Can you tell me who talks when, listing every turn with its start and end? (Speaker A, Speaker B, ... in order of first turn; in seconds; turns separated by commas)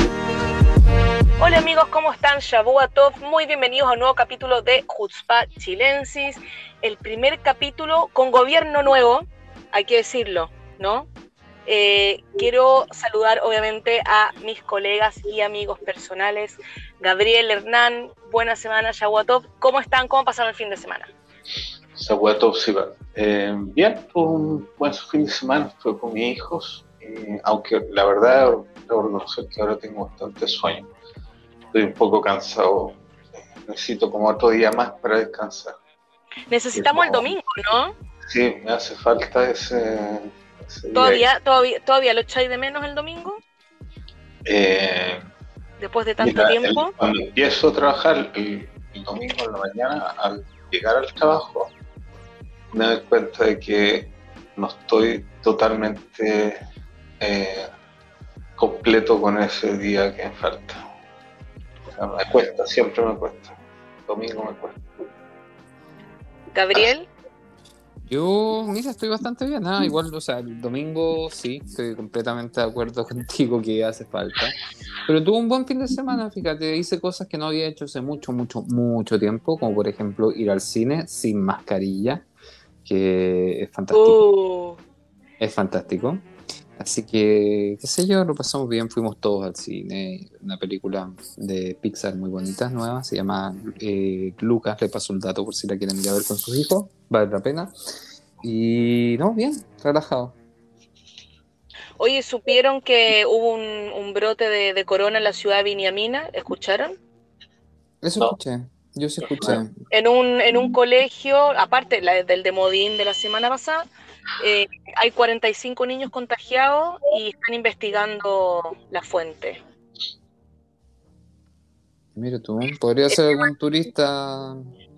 Speaker A: 1.4-11.1, Speaker A: 11.7-21.1, Speaker B: 21.9-30.9, Speaker B: 31.7-33.0, Speaker B: 33.5-35.8, Speaker A: 36.5-37.9, Speaker B: 36.7-37.3, Speaker B: 38.2-41.2, Speaker A: 40.9-43.4, Speaker B: 44.5-45.2, Speaker A: 45.8-46.9, Speaker B: 46.2-51.7, Speaker B: 52.7-56.6, Speaker B: 57.2-57.7, Speaker B: 58.6-60.8, Speaker B: 61.9-64.8, Speaker A: 66.5-67.1, Speaker C: 68.1-82.3, Speaker C: 82.8-84.2, Speaker A: 83.9-84.8, Speaker C: 85.4-86.2, Speaker C: 86.8-97.7, Speaker C: 98.4-100.3, Speaker A: 102.0-107.0, Speaker C: 108.0-109.7, Speaker A: 109.9-113.8, Speaker A: 114.4-119.6, Speaker C: 122.1-124.7, Speaker A: 123.1-123.4